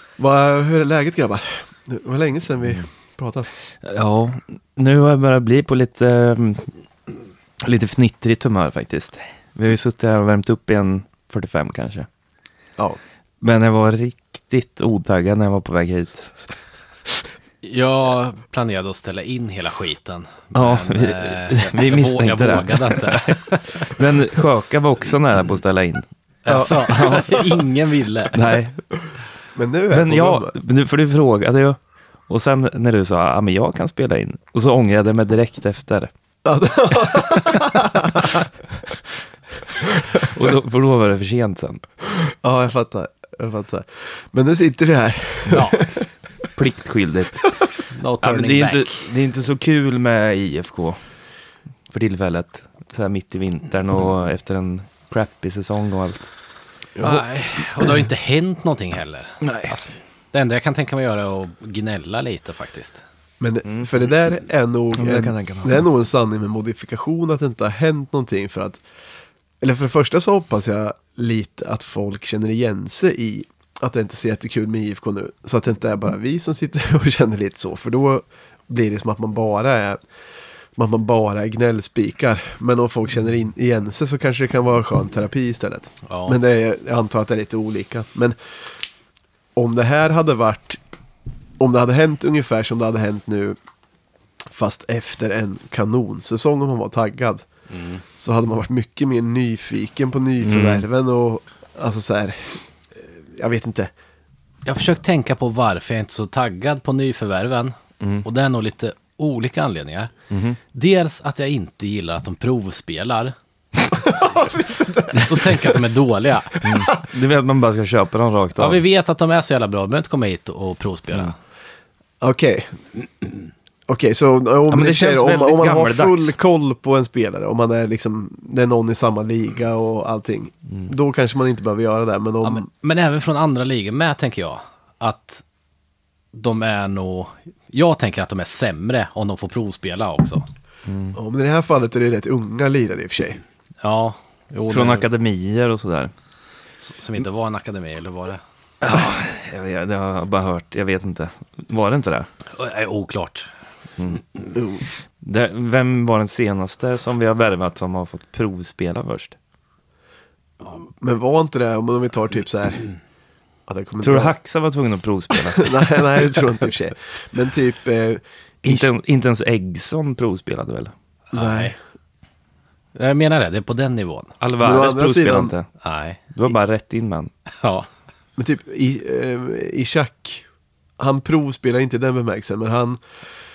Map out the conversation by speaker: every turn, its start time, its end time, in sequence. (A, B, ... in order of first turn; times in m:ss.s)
0:00.2-0:03.5 A
0:03.8-0:06.7 B
0:07.6-0:12.1 B
0:13.4-0:16.3 B
0:17.6-0:23.9 C
0:20.5-0:26.0 B
0:26.4-0:28.4 C
0:26.5-0:27.4 A
0:26.6-0:27.4 B
0:28.3-0:28.8 B
0:29.6-0:30.5 A
0:29.9-0:31.8 B
0:32.3-0:36.1 B
0:36.4-0:38.5 A
0:39.9-0:40.3 A
0:40.1-0:41.8 B
0:42.2-0:46.1 A
0:45.5-0:45.8 C
0:46.6-0:47.5 B
0:47.9-0:49.0 C
0:48.2-0:51.0 B
0:51.9-0:56.3 B
0:57.0-0:57.2 A
0:57.0-1:03.0 C
0:59.4-0:59.8 B
1:03.4-1:08.8 A
1:03.6-1:03.9 B
1:04.9-1:05.8 B
1:09.6-1:20.0 A
1:20.7-1:28.4 A
1:26.1-1:26.4 C
1:29.6-1:30.8 A
1:31.6-1:33.6 A
1:34.4-1:37.4 A
1:37.7-1:38.0 C
1:38.2-1:43.9 A
1:40.4-1:40.8 B
1:44.6-1:50.1 C
1:48.0-1:48.2 B
1:50.3-1:50.6 B
1:50.7-1:53.3 C
1:53.9-1:55.8 A
1:55.1-1:56.6 C
1:56.5-1:57.0 A
1:56.6-1:58.8 B
1:58.6-2:01.4 C
2:02.2-2:02.8 A
2:03.9-2:12.7 A
2:04.7-2:06.3 B
2:12.4-2:15.4 C
2:16.3-2:20.4 C
2:20.8-2:21.2 B
2:21.1-2:23.4 A
2:23.8-2:25.0 C
2:24.7-2:26.1 B
2:26.8-2:28.4 C
2:28.8-2:32.3 B
2:32.5-2:33.5 C
2:34.5-2:34.8 A
2:35.2-2:39.4 B
2:40.7-2:42.8 A
2:43.7-2:44.3 A
2:44.0-2:46.0 B
2:45.5-2:48.9 A
2:48.6-2:50.9 B
2:51.3-2:51.7 C
2:51.3-2:51.8 A
2:53.0-2:54.3 C
2:54.4-2:55.7 B
2:54.6-2:55.5 A
2:55.8-2:56.2 C
2:56.3-2:57.3 B
2:57.5-2:57.9 C
2:58.4-3:00.4 A
3:01.0-3:03.0 A